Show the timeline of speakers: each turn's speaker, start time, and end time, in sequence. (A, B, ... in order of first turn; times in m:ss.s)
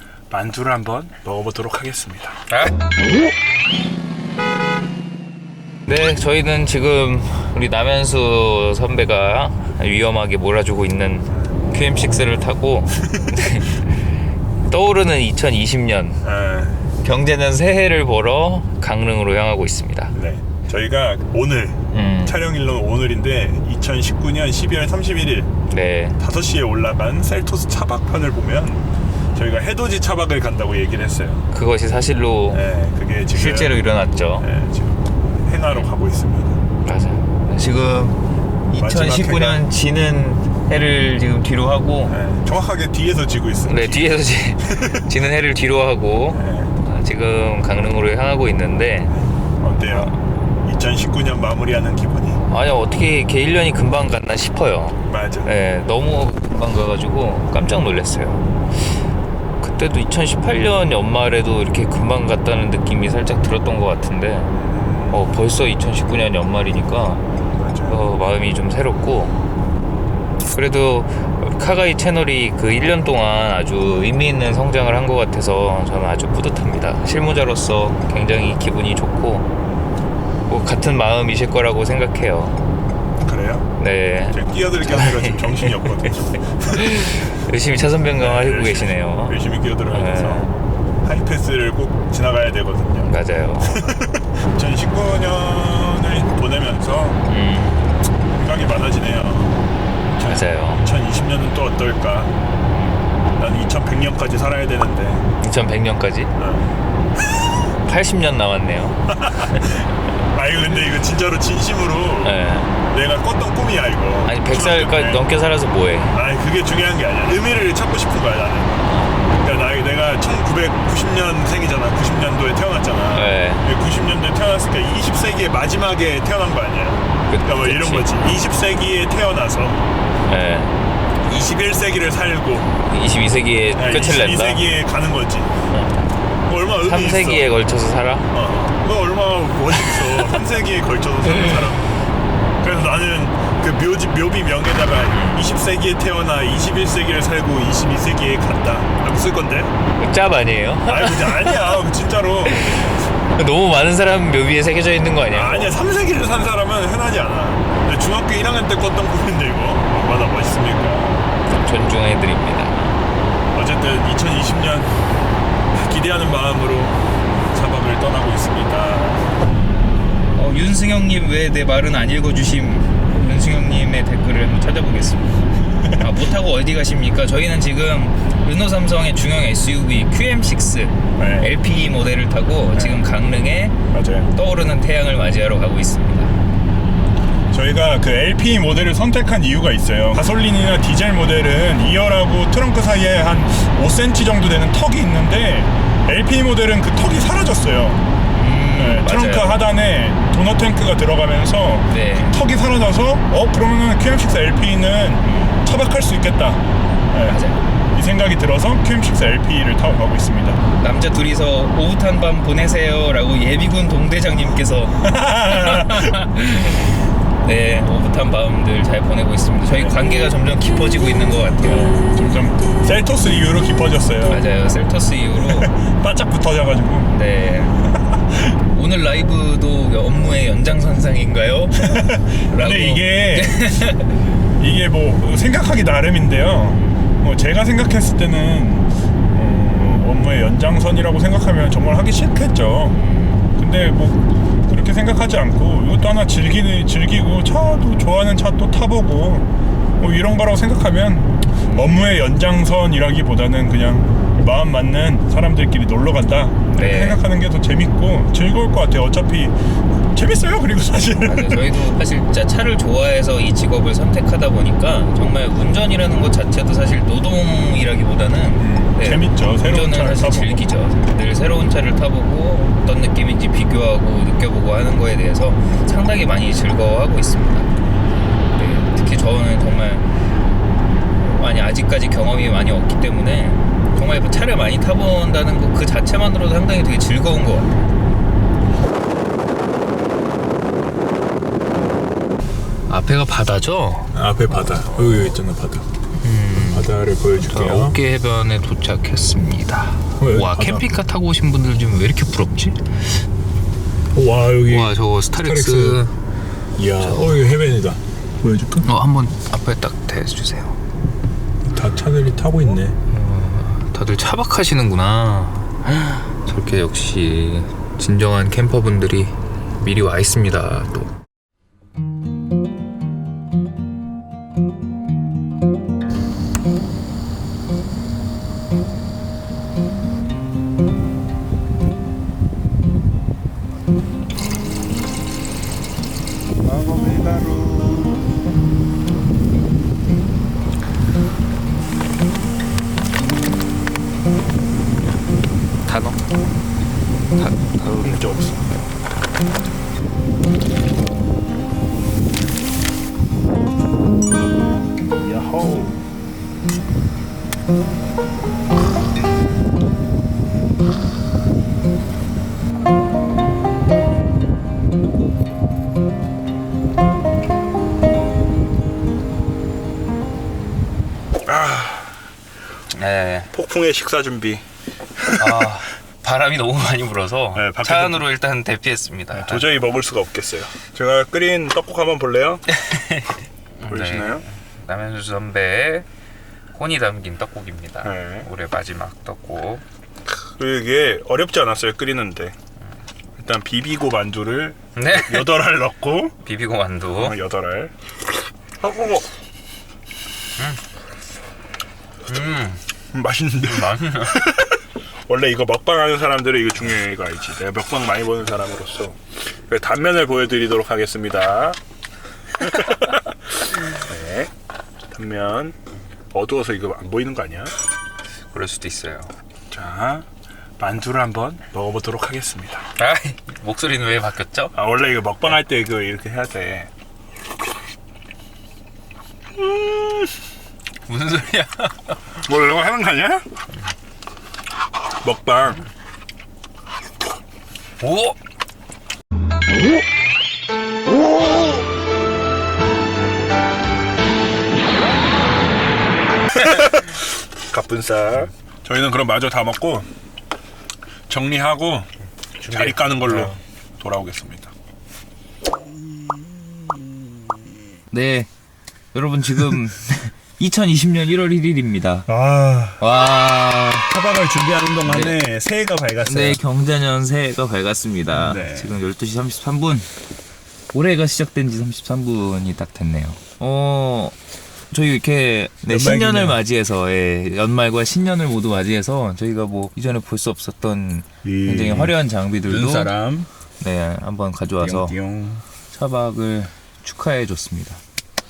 0:00.3-0:02.4 A
0:02.5-0:02.8 B
0:05.9-0:14.0 B
0:13.1-0:13.6 A
0:14.7-0:16.2 B
0:16.2-0:16.8 A
0:17.0-0:20.1 B
0:20.1-0:25.5 A
0:21.9-0:22.4 B
0:25.7-0:26.2 B
0:26.2-0:31.4 A
0:31.5-0:32.7 B
0:32.5-0:33.8 A
0:33.3-0:34.5 B
0:34.4-0:36.6 A
0:36.8-0:42.2 B
0:38.8-0:39.7 A
0:42.1-0:45.0 A
0:43.7-0:49.2 B
0:46.3-0:46.8 A
0:49.6-0:52.4 A
0:49.8-0:50.2 B
0:52.5-0:59.0 B
0:55.1-0:55.5 A
0:59.6-1:04.5 B
1:04.5-1:05.2 A
1:05.1-1:07.3 B
1:07.4-1:08.1 A
1:07.8-1:09.4 B
1:10.5-1:19.5 B
1:20.5-1:22.6 B
1:23.2-1:23.7 A
1:23.8-1:25.9 B
1:24.3-1:27.2 A
1:26.6-1:30.5 B
1:28.2-1:37.2 A
1:33.1-1:33.9 B
1:37.3-1:37.9 B
1:38.3-1:42.4 A
1:40.2-1:40.9 B
1:42.7-1:43.1 B
1:43.4-1:45.3 A
1:45.4-1:46.3 B
1:46.4-1:46.7 A
1:47.8-1:49.9 B
1:49.1-1:55.3 A
1:52.2-1:52.7 B
1:54.2-1:56.2 B
1:56.1-2:09.8 A
1:58.9-1:59.4 B
2:03.1-2:03.6 B
2:07.3-2:08.1 B
2:10.3-2:10.8 B
2:11.2-2:12.7 A
2:12.9-2:14.7 B
2:13.7-2:15.6 A
2:15.7-2:16.1 B
2:16.4-2:17.5 A
2:16.8-2:18.4 B
2:18.3-2:21.9 A
2:19.7-2:20.4 B
2:21.3-2:21.8 B
2:22.6-2:29.7 A
2:25.1-2:25.5 B
2:30.0-2:31.8 B
2:30.9-2:33.0 A
2:32.5-2:35.8 B
2:35.3-2:41.3 A
2:41.4-2:43.0 B
2:43.5-2:45.0 A
2:45.7-2:49.4 A
2:50.4-3:03.8 B
3:01.2-3:01.6 A
3:02.7-3:03.0 A
3:03.9-3:04.3 A
3:04.3-3:06.4 B
3:07.5-3:18.0 A
3:18.3-3:19.6 B
3:18.7-3:27.4 A
3:21.9-3:22.4 B
3:25.2-3:25.6 B
3:27.2-3:27.6 B
3:27.9-3:30.6 A
3:30.8-3:42.1 B
3:35.0-3:36.1 A
3:39.6-3:40.0 A
3:41.9-3:44.7 A
3:44.2-3:45.8 B
3:45.4-3:47.1 A
3:47.1-3:47.8 B
3:48.0-3:48.6 A
3:48.7-3:54.2 B
3:51.8-3:53.8 A
3:54.6-4:03.0 A
3:56.6-3:57.0 B
4:02.9-4:03.5 B
4:03.6-4:09.5 A
4:10.0-4:21.8 A
4:11.6-4:12.0 B
4:16.7-4:17.2 B
4:21.2-4:37.7 B
4:28.6-4:30.7 A
4:38.6-4:40.1 B
4:41.2-4:47.8 B
4:52.9-4:54.1 B
4:54.1-4:55.8 A
4:56.2-5:03.2 B
4:56.6-4:58.0 A
5:00.2-5:00.9 A
5:04.1-5:06.0 A
5:04.6-5:06.1 B
5:06.8-5:08.9 A
5:07.0-5:07.4 B
5:08.8-5:10.8 B
5:11.6-5:13.0 A
5:13.1-5:21.1 B
5:36.6-5:38.2 A
5:45.8-5:46.2 B
5:47.4-5:48.2 B
5:47.8-5:48.7 A
5:55.2-5:56.0 A
6:11.4-6:12.2 A
6:12.9-6:13.5 B
6:13.5-6:14.6 A
6:15.2-6:15.7 A
6:15.4-6:19.7 B
6:17.6-6:18.3 A
6:19.3-6:22.6 A
6:22.7-6:26.1 B
6:23.9-6:24.4 A
6:26.7-6:29.8 B
6:28.0-6:28.5 A
6:30.3-6:32.6 A
6:33.4-6:36.4 A
6:35.0-6:35.8 B
6:36.4-6:37.4 B
6:37.1-6:37.9 A
6:38.8-6:39.2 A
6:42.3-6:42.8 B
6:43.1-6:44.7 A
6:43.6-6:44.6 B
6:45.3-6:51.8 A
6:52.6-6:53.2 A
6:53.9-6:54.5 A
6:55.1-6:55.8 A
6:56.3-6:57.7 A
6:58.5-6:59.3 B
6:59.7-7:00.3 A
7:00.8-7:02.8 A
7:03.0-7:04.8 B
7:04.7-7:06.9 A
7:11.1-7:12.2 B
7:12.4-7:13.4 A
7:15.2-7:15.8 A
7:18.0-7:18.4 B
7:26.6-7:27.1 A
7:27.7-7:30.1 A
7:31.3-7:32.1 A
7:32.6-7:33.6 B
7:32.7-7:34.7 A
7:38.1-7:38.5 B
7:39.1-7:42.3 B
7:42.3-7:43.0 A
7:43.0-7:44.2 B
7:44.0-7:46.6 A
7:45.0-7:45.4 B
7:46.2-7:50.1 B
7:48.3-7:49.0 A
7:50.9-7:54.4 B
7:54.9-8:03.1 B
7:55.9-7:56.6 A
8:01.4-8:03.5 A
8:03.8-8:05.2 B
8:04.8-8:05.6 A
8:05.9-8:08.0 B